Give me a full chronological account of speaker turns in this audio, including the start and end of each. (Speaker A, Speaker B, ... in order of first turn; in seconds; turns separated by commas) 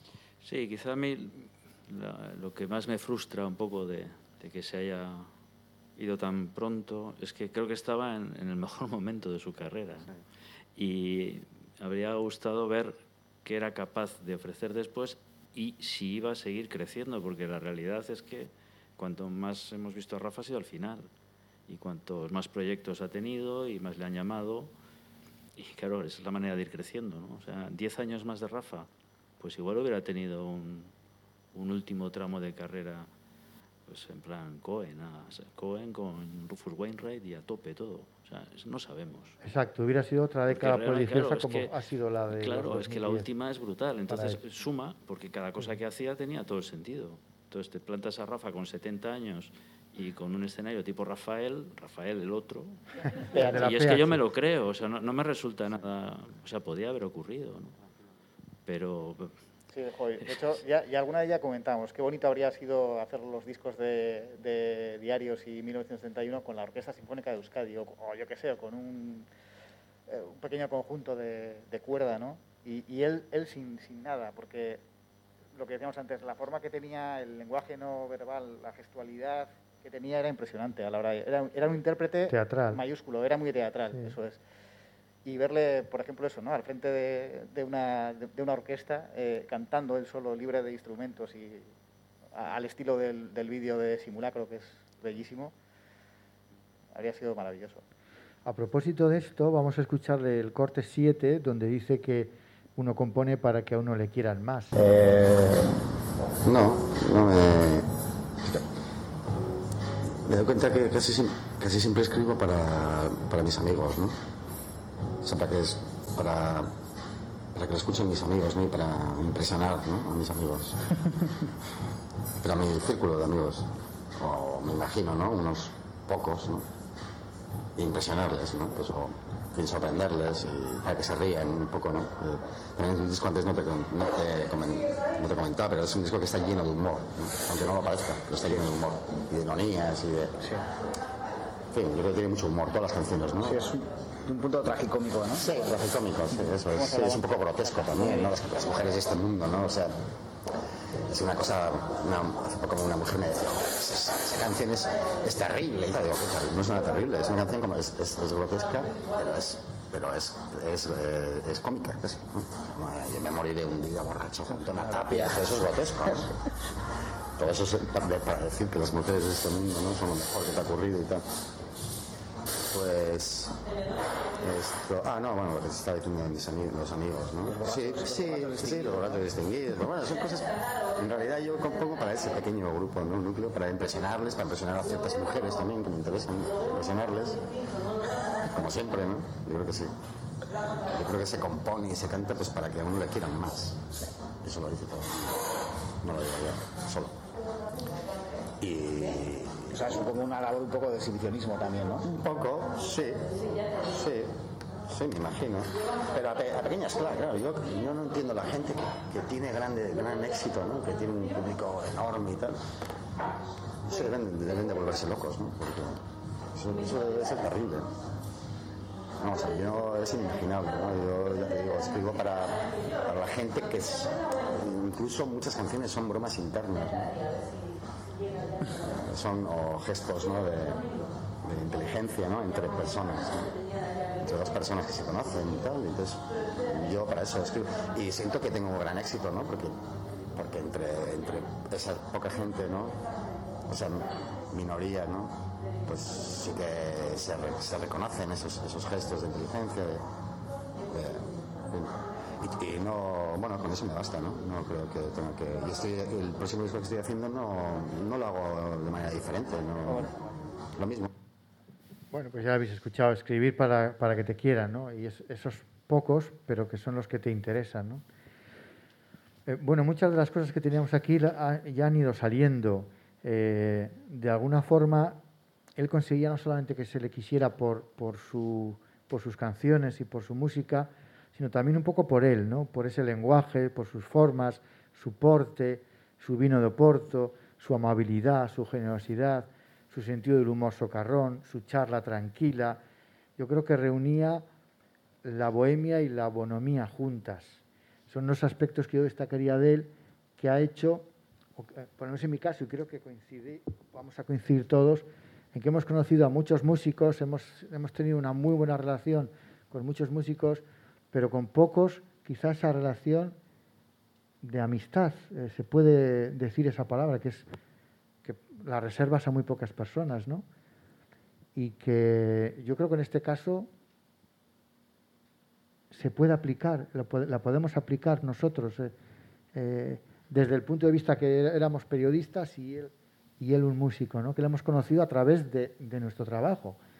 Speaker A: 0.4-5.3, Speaker A: 6.0-10.1, Speaker A: 10.8-21.1, Speaker A: 21.7-24.7, Speaker A: 25.6-28.9, Speaker A: 29.4-30.9, Speaker A: 31.5-33.1, Speaker A: 33.9-39.4, Speaker B: 39.4-43.3, Speaker A: 40.5-41.7, Speaker A: 42.3-57.8, Speaker B: 44.1-44.4, Speaker B: 53.3-54.2, Speaker A: 58.6-59.3, Speaker C: 59.7-69.3, Speaker C: 70.1-74.8, Speaker C: 75.5-84.4, Speaker B: 82.3-82.8, Speaker C: 85.2-91.7, Speaker C: 92.3-95.5, Speaker C: 96.9-97.8, Speaker B: 98.4-104.7, Speaker D: 105.0-105.5, Speaker E: 106.4-107.9, Speaker E: 110.2-114.2, Speaker E: 115.2-116.7, Speaker E: 117.5-120.9, Speaker E: 122.4-126.7, Speaker E: 127.8-140.3, Speaker D: 140.4-140.7, Speaker E: 141.7-143.6, Speaker D: 143.4-145.5, Speaker E: 145.3-150.0, Speaker C: 146.8-148.3, Speaker E: 151.1-166.3, Speaker E: 167.4-171.2, Speaker E: 172.7-173.6, Speaker E: 174.4-187.5, Speaker D: 177.5-179.2, Speaker E: 188.4-189.9, Speaker E: 190.9-193.8, Speaker E: 194.4-195.3, Speaker E: 196.0-197.2, Speaker E: 198.6-199.8, Speaker D: 199.7-202.0, Speaker E: 202.0-204.3, Speaker E: 204.8-212.6, Speaker E: 213.9-217.9, Speaker E: 219.2-227.1, Speaker E: 228.8-230.9, Speaker E: 231.4-233.5, Speaker E: 234.2-239.8, Speaker E: 240.3-243.0, Speaker E: 243.7-250.0, Speaker E: 250.9-260.2, Speaker E: 260.7-261.1, Speaker B: 262.1-268.0, Speaker B: 269.5-275.2, Speaker B: 275.8-292.8, Speaker B: 293.4-294.4, Speaker B: 295.2-313.4, Speaker B: 314.4-317.4, Speaker B: 318.2-320.4, Speaker B: 321.5-323.7, Speaker B: 325.9-328.9, Speaker B: 329.5-336.8